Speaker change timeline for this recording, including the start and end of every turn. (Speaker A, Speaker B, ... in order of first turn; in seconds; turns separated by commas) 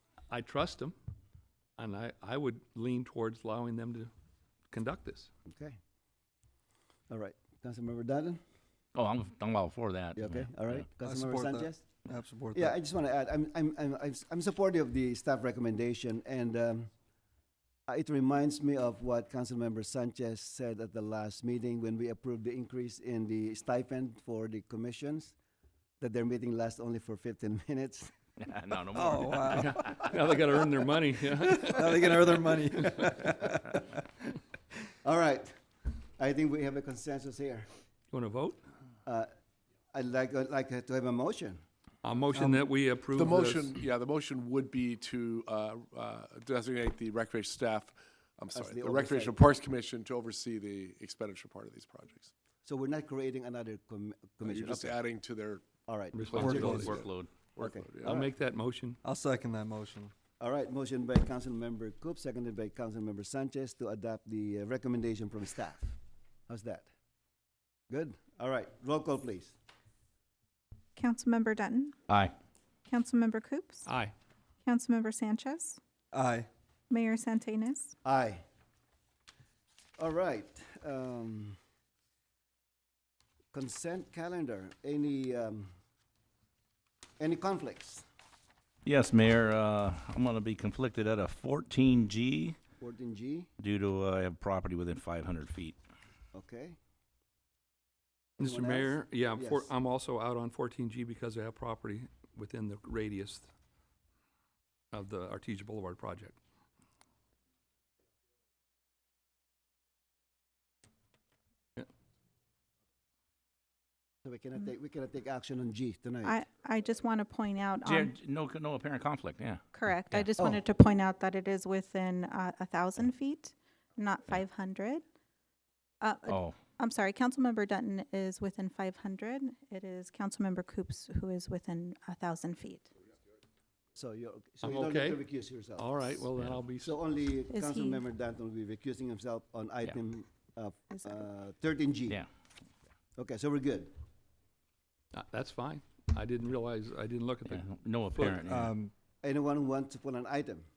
Speaker A: 0.3-0.9, Speaker A: 1.8-4.1, Speaker A: 4.7-5.3, Speaker B: 5.5-5.8, Speaker B: 7.1-8.4, Speaker C: 8.9-10.9, Speaker B: 10.2-11.9, Speaker D: 11.0-12.7, Speaker B: 12.5-16.9, Speaker B: 17.9-25.4, Speaker B: 26.0-28.1, Speaker C: 28.4-29.7, Speaker D: 28.9-30.1, Speaker A: 29.6-31.9, Speaker D: 31.3-34.1, Speaker B: 35.0-35.5, Speaker B: 36.2-37.7, Speaker A: 38.1-38.6, Speaker B: 39.9-41.6, Speaker A: 42.0-43.8, Speaker D: 42.3-42.7, Speaker E: 43.1-52.3, Speaker B: 48.5-49.5, Speaker B: 52.6-55.0, Speaker E: 54.5-55.6, Speaker B: 55.9-56.9, Speaker A: 56.1-57.0, Speaker E: 56.3-58.2, Speaker D: 56.4-57.0, Speaker C: 57.0-57.3, Speaker B: 57.6-58.3, Speaker A: 58.0-59.0, Speaker D: 59.0-60.1, Speaker B: 60.4-66.0, Speaker B: 66.5-66.9, Speaker B: 67.9-69.6, Speaker F: 71.0-72.0, Speaker C: 72.1-72.3, Speaker F: 72.9-73.9, Speaker A: 73.9-74.1, Speaker F: 74.6-75.8, Speaker D: 76.1-76.5, Speaker F: 76.9-78.0, Speaker B: 78.0-78.4, Speaker B: 80.0-81.6, Speaker B: 83.5-85.7, Speaker B: 87.2-88.0, Speaker C: 88.9-92.6, Speaker B: 92.8-93.5, Speaker C: 93.6-95.8, Speaker B: 96.3-96.8, Speaker B: 98.4-99.7, Speaker A: 98.4-103.5, Speaker A: 104.9-106.4, Speaker B: 114.2-116.4, Speaker F: 116.2-118.1, Speaker C: 117.8-120.3, Speaker F: 119.7-125.0, Speaker F: 126.0-132.9, Speaker C: 126.3-126.5, Speaker B: 133.9-136.1, Speaker A: 134.6-137.0, Speaker C: 136.4-136.6, Speaker B: 136.8-142.2, Speaker F: 137.5-138.0, Speaker F: 140.9-141.2, Speaker B: 143.2-143.9, Speaker A: 145.1-148.3, Speaker C: 147.4-148.7, Speaker D: 148.2-148.9, Speaker B: 149.2-150.7